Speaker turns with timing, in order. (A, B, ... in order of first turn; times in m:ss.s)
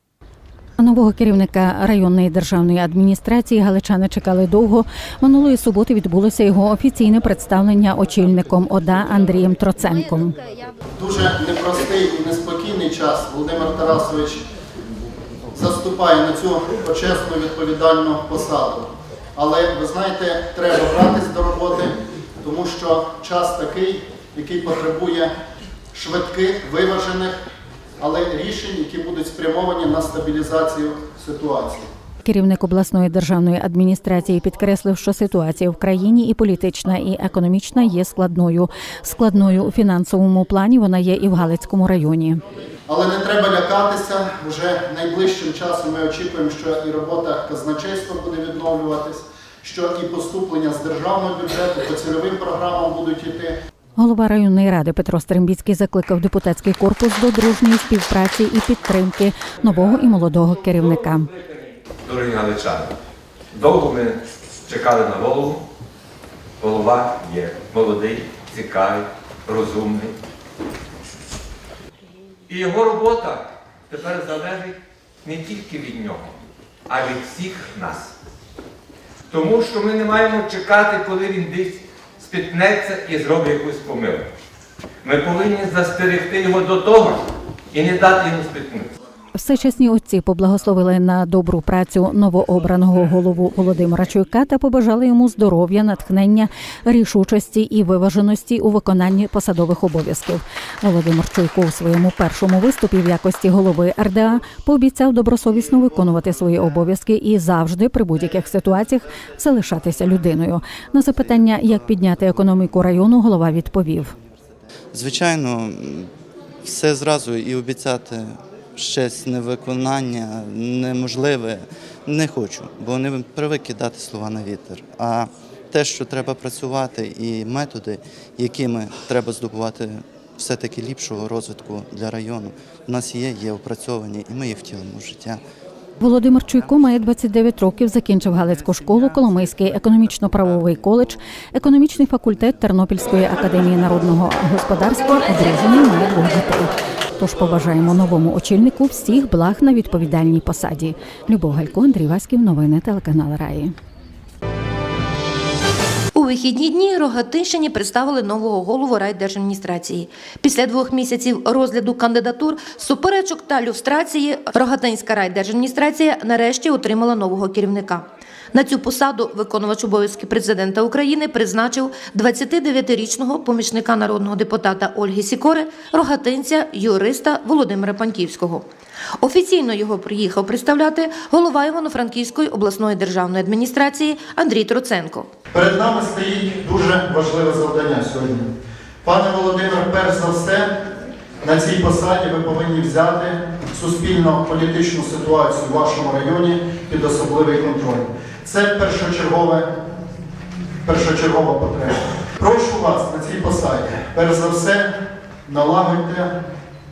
0:00.8-0:10.3 A
0:11.0-0:14.4 B
0:15.5-0:25.3 B
0:25.9-0:27.4 B
0:28.0-0:31.9 B
0:32.2-0:42.4 A
0:42.9-0:53.6 B
0:54.0-1:01.3 A
1:00.9-1:02.9 C
1:03.5-1:05.6 C
1:06.6-1:10.2 C
1:12.5-1:18.1 C
1:19.3-1:24.3 C
1:25.0-1:28.9 C
1:29.4-1:54.1 A
1:54.9-1:56.1 D
1:56.6-2:15.4 D
2:16.0-2:33.7 A
2:36.2-2:58.7 E
2:59.2-3:05.3 E
3:05.5-3:08.5 B
3:09.0-3:10.7 B
3:11.4-3:19.7 B
3:20.8-3:24.9 B
3:25.5-3:26.3 B